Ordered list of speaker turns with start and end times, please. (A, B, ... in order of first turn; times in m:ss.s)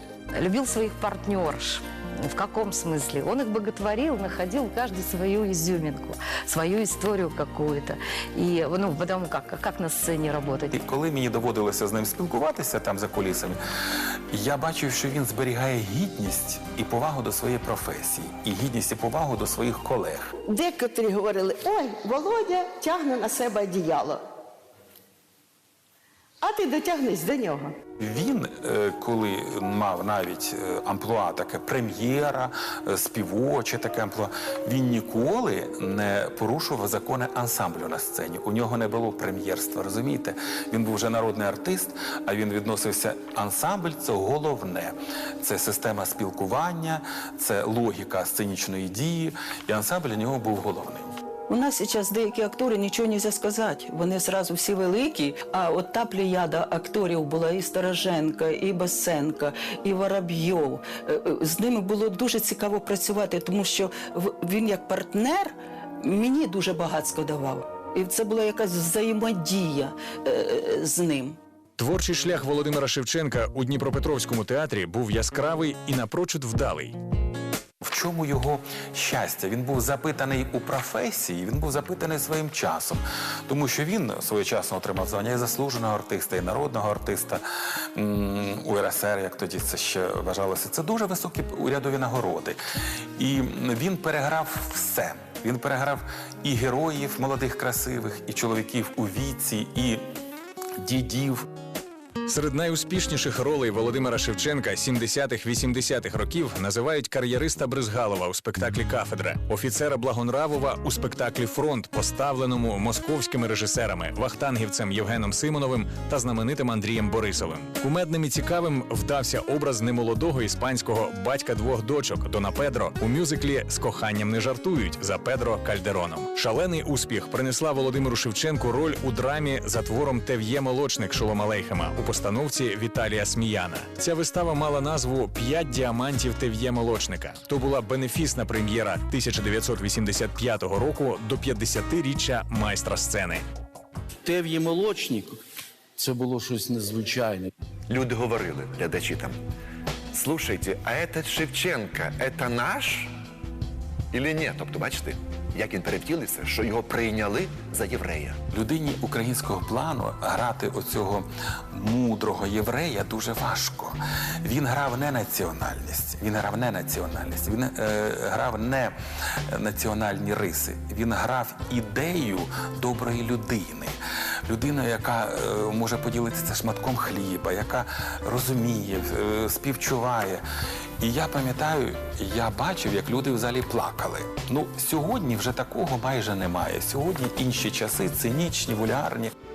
0:00.3-0:10.8 A
0:10.7-0:13.6 B
0:14.3-0:20.3 B
0:20.5-0:24.2 C
0:26.4-0:27.7 C
0:28.0-0:51.2 B
0:51.5-1:11.4 D
1:11.8-1:17.0 E
1:17.8-1:27.4 B
1:28.0-1:32.6 B
1:33.2-1:40.1 B
1:40.8-1:41.5 B
1:42.3-2:23.4 E
2:24.2-2:25.4 F
2:26.0-2:27.5 F
2:27.9-2:29.4 G
2:30.1-2:33.1 G
2:34.1-2:38.4 G
2:38.5-2:49.0 B
2:49.5-3:00.4 B
3:01.0-3:09.3 B